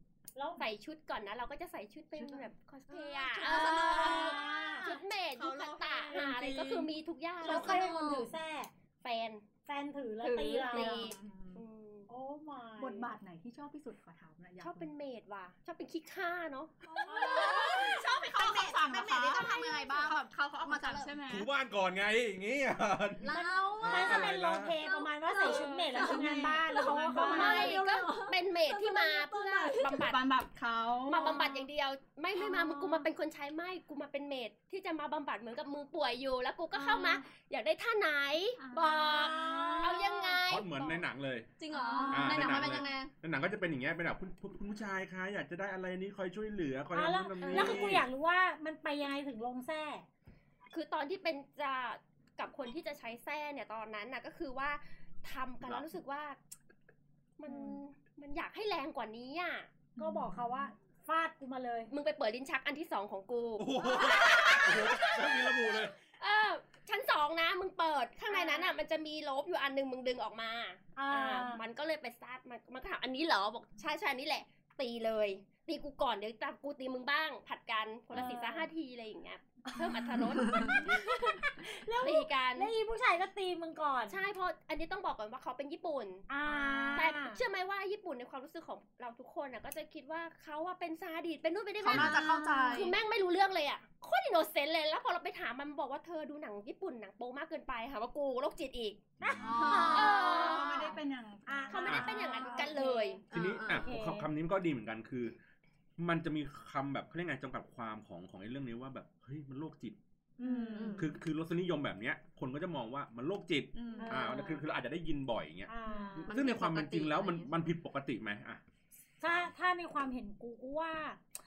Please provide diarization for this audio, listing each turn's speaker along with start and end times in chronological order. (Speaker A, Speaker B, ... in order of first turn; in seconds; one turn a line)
Speaker A: 0.3-0.7
Speaker B: 0.6-7.9
Speaker C: 3.0-6.9
Speaker D: 3.2-4.4
Speaker A: 3.6-4.9
Speaker D: 7.4-8.3
Speaker A: 7.4-8.7
Speaker B: 9.0-9.4
Speaker A: 9.7-11.1
Speaker B: 10.2-12.1
Speaker C: 10.7-11.6
Speaker A: 12.1-13.1
Speaker C: 12.8-14.9
Speaker B: 14.6-18.0
Speaker C: 16.9-21.4
Speaker A: 17.1-17.6
Speaker D: 17.1-21.2
Speaker E: 21.3-23.3
Speaker D: 23.2-24.2
Speaker A: 23.3-27.7
Speaker E: 23.8-24.8
Speaker B: 24.9-25.6
Speaker D: 25.2-30.1
Speaker C: 25.4-27.8
Speaker B: 27.2-30.2
Speaker C: 29.9-31.5
Speaker B: 31.1-40.9
Speaker A: 32.4-33.0
Speaker A: 36.8-37.1
Speaker C: 36.8-37.1
Speaker C: 38.6-40.4
Speaker A: 38.8-40.3
Speaker E: 40.5-41.5
Speaker D: 41.6-43.1
Speaker A: 41.7-42.3
Speaker C: 41.7-42.8
Speaker E: 42.1-48.1
Speaker A: 46.9-50.0
Speaker B: 47.4-48.0
Speaker B: 50.7-56.4
Speaker B: 57.4-59.7
Speaker A: 57.5-57.8
Speaker C: 60.0-60.7
Speaker A: 60.0-61.9
Speaker B: 61.9-82.7
Speaker E: 63.6-65.9
Speaker A: 68.3-68.8
Speaker A: 71.0-71.6
Speaker A: 78.1-78.7
Speaker A: 79.8-84.2
Speaker B: 84.1-86.3
Speaker A: 86.3-87.4
Speaker C: 86.5-87.1
Speaker B: 86.9-99.0
Speaker D: 91.8-92.9
Speaker A: 91.9-92.8
Speaker E: 99.2-99.5
Speaker A: 99.2-100.6
Speaker D: 99.4-100.9
Speaker C: 99.4-102.8
Speaker B: 99.9-101.0
Speaker A: 101.5-104.3
Speaker B: 101.7-103.2
Speaker D: 103.3-103.9
Speaker E: 103.3-105.3
Speaker E: 106.0-110.0
Speaker A: 110.4-111.0
Speaker C: 110.4-111.0
Speaker D: 110.7-111.1
Speaker E: 111.0-118.6
Speaker C: 113.7-114.3
Speaker A: 114.0-114.6
Speaker A: 115.7-116.3
Speaker C: 115.9-116.3
Speaker D: 116.2-117.5
Speaker A: 119.2-121.2